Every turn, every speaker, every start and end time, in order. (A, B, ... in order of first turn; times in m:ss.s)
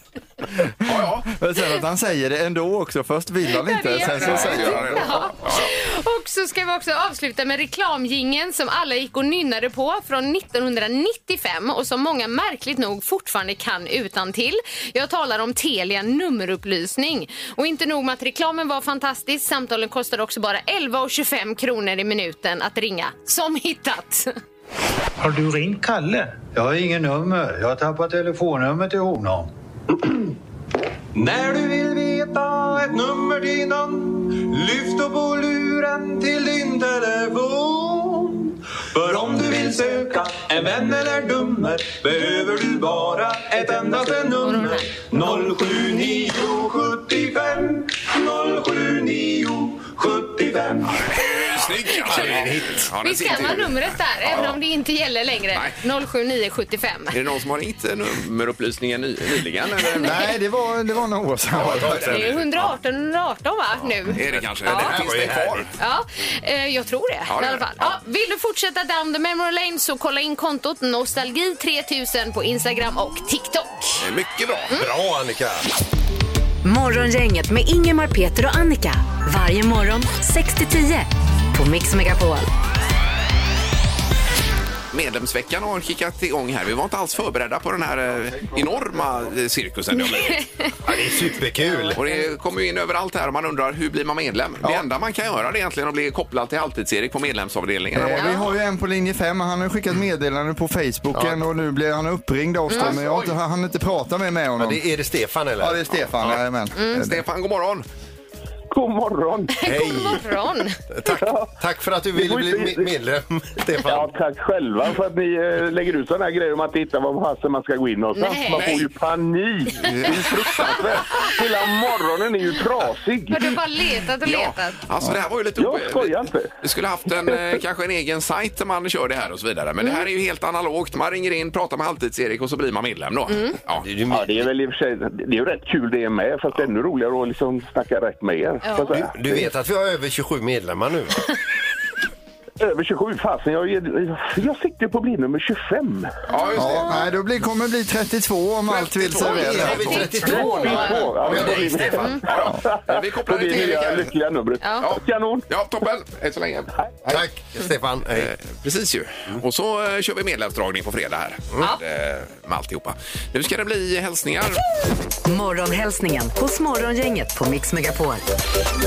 0:00.8-0:01.3 A
0:01.3-0:05.2 B
0:03.5-0:24.3 C
0:04.0-0:05.7 A
0:25.2-0:29.5 D
0:31.1-0:50.9 E
0:44.4-0:44.9 C
0:51.1-0:54.6 A
0:51.9-0:52.2 C
0:52.0-0:52.9 F
0:53.0-0:57.2 C
0:57.1-1:00.2 A
0:59.9-1:00.3 C
1:00.0-1:02.2 B
1:01.6-1:02.5 A
1:01.6-1:02.3 F
1:02.1-1:05.0 C
1:04.1-1:05.7 A
1:04.4-1:05.7 F
1:05.8-1:14.0 C
1:07.3-1:07.9 A
1:14.0-1:14.7 A
1:14.7-1:15.6 F
1:16.6-1:22.5 G
1:24.9-1:30.4 A
1:28.3-1:29.0 B
1:29.9-1:30.7 C
1:30.8-1:32.0 F
1:31.7-1:32.2 C
1:32.0-1:38.5 A
1:37.9-1:44.8 B
1:38.2-1:38.5 C
1:41.1-1:41.4 F
1:42.7-1:43.3 A
1:44.6-1:45.8 F
1:45.6-1:47.2 B
1:46.8-1:47.1 C
1:46.9-1:47.9 A
1:48.7-1:49.7 H
1:49.6-1:50.8 C
1:49.6-1:50.3 F
1:50.9-1:54.1 F
1:51.2-1:51.5 H
1:52.2-1:52.9 H
1:53.8-2:03.4 H
1:58.2-1:58.8 C
1:58.5-1:58.9 A
1:59.9-2:01.0 A
2:00.1-2:00.5 C
2:03.3-2:04.8 C
2:04.2-2:13.9 A
2:05.6-2:06.5 H
2:13.3-2:13.6 C
2:13.8-2:14.5 F
2:14.1-2:19.5 H
2:18.6-2:19.0 C
2:18.9-2:21.2 F
2:22.6-2:26.1 H
2:26.3-2:27.0 C
2:26.3-2:27.1 A
2:26.6-2:29.9 B
2:28.7-2:30.4 A
2:29.2-2:32.3 F
2:29.2-2:31.1 C
2:29.9-2:35.4 H
2:31.2-2:31.7 A
2:32.0-2:32.2 C
2:32.3-2:34.1 A
2:34.6-2:34.9 C
2:34.8-2:37.2 A
2:37.1-2:38.3 F
2:38.1-2:44.6 A
2:45.3-2:48.2 G